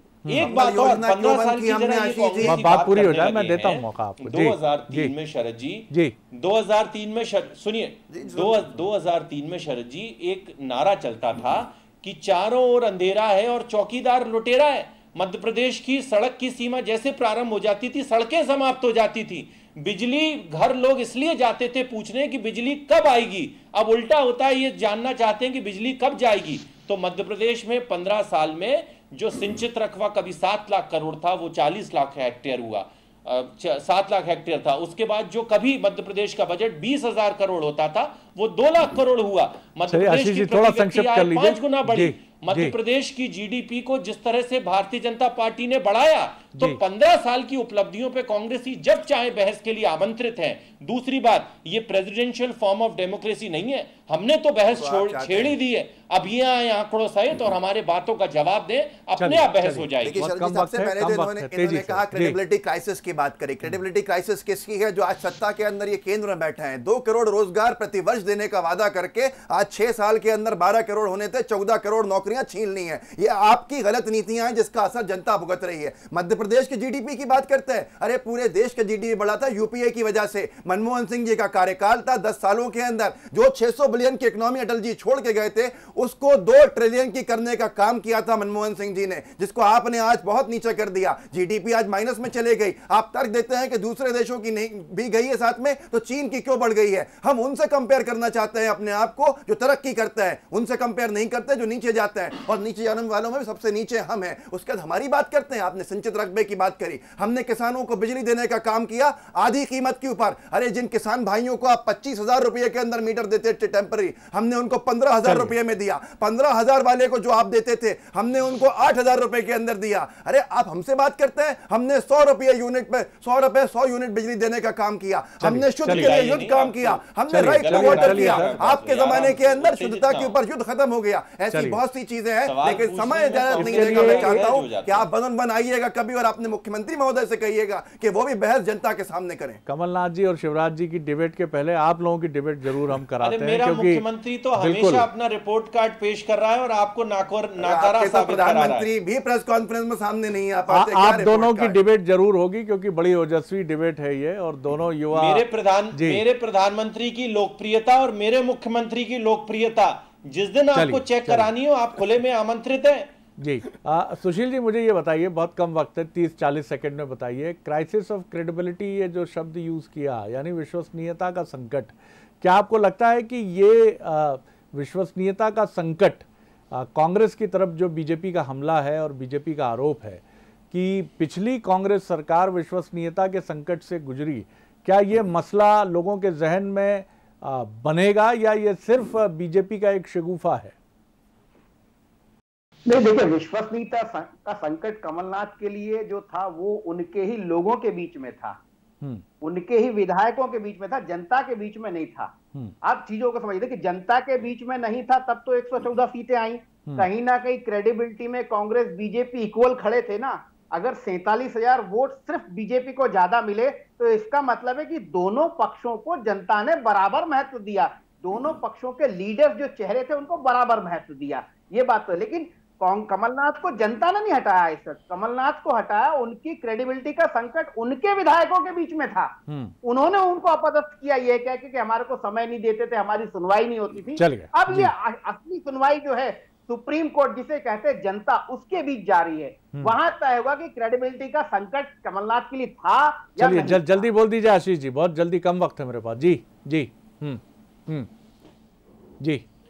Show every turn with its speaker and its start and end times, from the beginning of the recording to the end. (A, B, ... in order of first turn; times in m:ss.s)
0:00.2-0:00.5 A
0:00.3-1:00.2 B
0:00.4-0:02.6 C
0:02.4-0:05.1 A
0:08.1-0:08.9 C
0:39.9-0:42.8 A
0:54.7-0:55.6 C
0:59.2-1:02.4 A
1:00.0-2:19.6 C
1:55.2-1:55.5 A
2:05.4-2:06.2 A
2:05.9-2:10.4 B
2:07.3-2:08.7 A
2:11.5-2:11.8 A
2:12.5-2:15.1 B
2:13.5-2:14.4 A
2:19.7-2:24.0 A
2:23.2-2:28.9 B
2:24.6-2:25.1 A
2:27.6-2:31.8 C
2:30.7-2:35.4 A
2:35.1-2:43.1 B
2:35.9-2:36.2 A
2:40.8-2:41.5 A
2:43.4-3:10.8 A
3:12.9-3:18.6 D
3:19.4-4:04.1 D
3:49.5-3:49.8 A
3:54.2-3:54.9 A
4:03.4-4:08.1 A
4:09.2-4:09.5 A